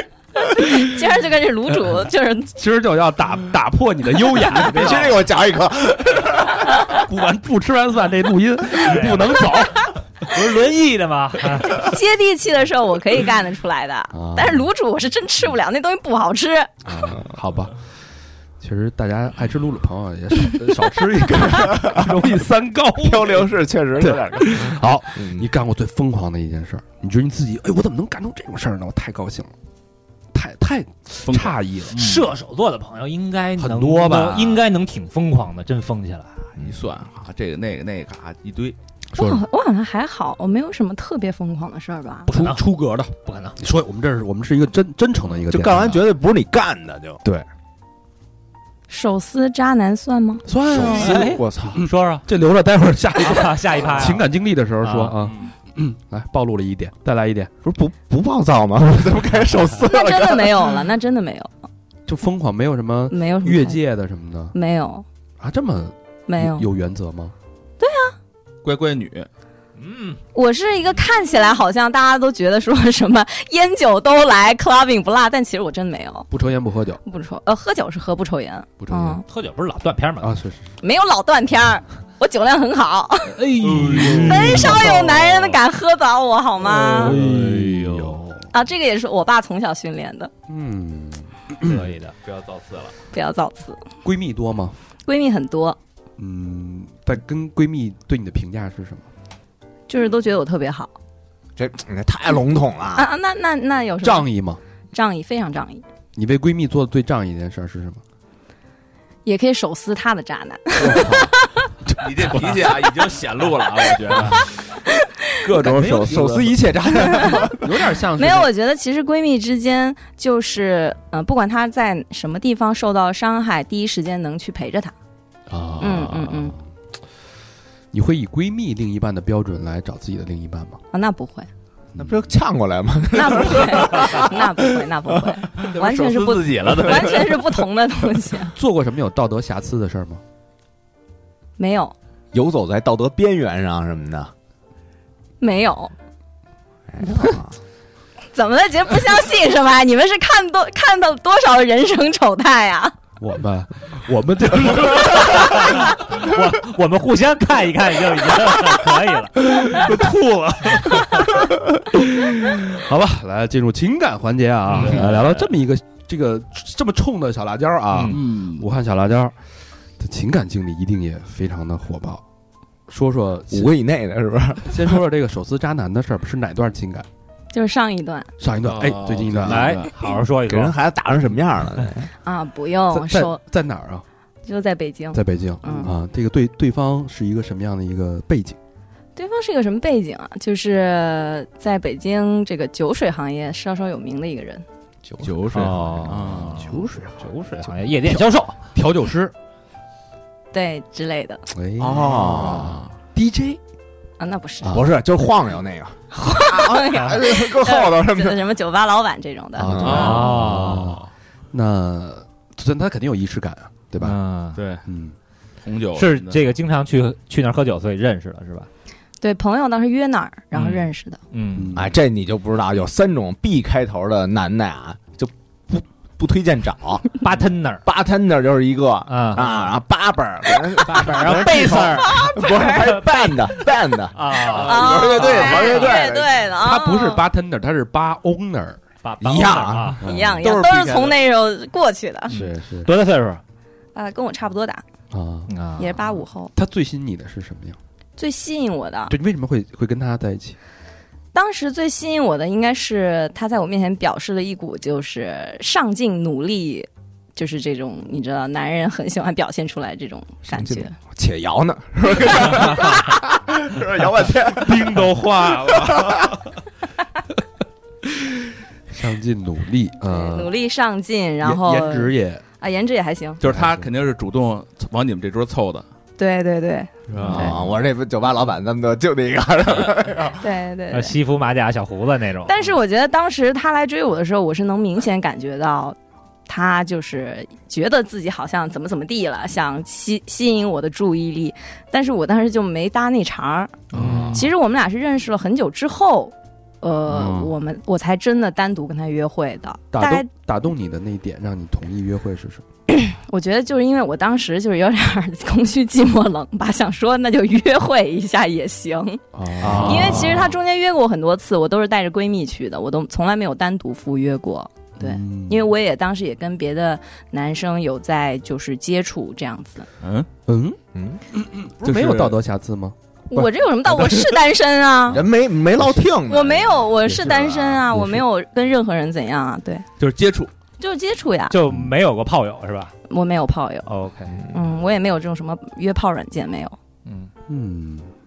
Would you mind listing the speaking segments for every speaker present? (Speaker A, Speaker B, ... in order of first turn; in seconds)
Speaker A: 0.4-2.5, 11.7-16.7, 39.2-42.3, 48.9-50.5, 59.9-61.5, 63.1-63.8, 64.5-65.0, 66.3-66.7, 67.8-68.2, 70.3-76.3, 77.0-79.2, 80.8-83.5, 84.2-87.2, 88.5-90.3, 93.1-93.8, 95.1-95.8, 99.9-100.9, 103.0-104.3, 104.9-105.8, 109.3-111.7, 114.8-115.2, 117.0-117.5, 118.2-124.9, 125.8-126.5, 130.9-131.5, 133.1-138.6, 141.6-141.9, 145.4-145.9, 148.3-153.0, 177.5-178.3, 182.2-183.4, 184.5-185.9, 189.2-194.6, 200.5-201.4, 204.2-204.8, 206.1-210.1, 219.2-221.2, 231.5-233.0, 234.5-237.2, 240.0-242.3, 243.9-244.8, 245.8-246.5, 248.2-249.1, 251.3-260.9, 270.1-273.4, 276.2-277.6, 280.4-281.2, 282.4-286.0, 286.5-300.3, 302.9-309.2, 309.7-319.9, 323.3-325.2, 326.3-329.9, 330.8-331.6, 333.1-333.9, 334.5-336.8
Speaker B: 2.6-5.2, 6.8-10.0, 14.1-14.7, 16.9-17.8, 18.6-29.5, 30.3-32.0, 33.6-34.6, 39.1-39.4, 42.3-46.1, 50.5-57.5, 62.1-64.5, 65.4-67.3, 76.3-77.0, 78.8-79.2, 80.2-80.7, 83.6-84.8, 86.7-88.5, 90.5-91.9, 94.0-94.8, 96.2-99.1, 104.0-104.6, 106.2-108.0, 117.5-118.5, 125.5-126.6, 127.9-130.8, 131.9-132.3, 138.6-140.2, 153.2-156.2, 159.4-169.4, 170.0-172.2, 172.9-173.7, 174.7-177.1, 178.4-179.8, 182.9-184.1, 185.1-188.6, 195.5-197.3, 198.1-199.3, 201.5-203.6, 209.6-214.2, 214.9-215.2, 221.5-221.9, 236.6-238.8, 240.0-240.4, 242.3-242.9, 245.1-245.5, 246.6-247.8, 249.1-250.6, 264.5-266.5, 268.9-270.5, 271.4-272.4, 273.4-273.9, 293.9-294.4, 299.9-302.6, 309.3-310.5, 315.0-315.7, 320.5-320.8, 321.3-322.9, 325.8-326.1, 327.1-328.2, 337.5-338.1
Speaker C: 4.5-6.9, 23.0-25.5, 45.5-47.2, 50.7-51.8, 57.6-60.9, 101.6-103.1, 110.8-111.3, 115.5-117.6, 132.0-134.5, 142.3-144.3, 146.9-147.5, 173.5-174.9, 180.4-182.1, 201.8-202.8, 204.7-208.4, 209.6-210.2, 221.8-227.2, 227.8-236.4, 239.2-240.0, 260.5-264.9, 265.9-266.1, 277.3-280.4, 320.9-321.2, 325.1-327.5
Speaker D: 8.7-9.4, 10.2-11.9, 31.9-36.5, 42.3-42.6, 43.2-43.6, 50.8-52.2, 53.2-54.2, 54.8-55.1, 69.8-70.2, 79.3-80.4, 83.4-85.6, 91.6-92.2, 155.0-159.7, 164.7-165.1, 167.9-168.2, 179.5-180.8, 195.5-198.6, 209.9-210.9, 214.0-214.6, 216.0-218.7, 220.5-221.8, 227.2-227.8, 229.1-229.7, 230.8-233.0, 234.1-235.9, 239.0-240.0, 242.3-243.4, 245.5-246.0, 280.9-282.6, 294.0-294.4, 309.6-310.3, 331.5-332.9, 333.9-334.4, 337.1-337.3
Speaker E: 31.3-32.2, 36.6-38.8, 68.6-69.3, 83.6-84.7, 86.8-88.2, 92.2-92.9, 111.9-114.5, 115.4-116.5, 135.6-137.5, 164.8-165.1, 168.1-168.7, 178.7-179.9, 195.2-196.8, 201.8-202.9, 209.8-211.0, 214.6-214.8, 215.6-216.4, 234.8-235.4, 240.4-241.2, 273.4-275.9, 277.1-277.6, 293.9-294.4, 297.2-297.5, 320.0-320.3, 321.9-322.4, 330.0-330.5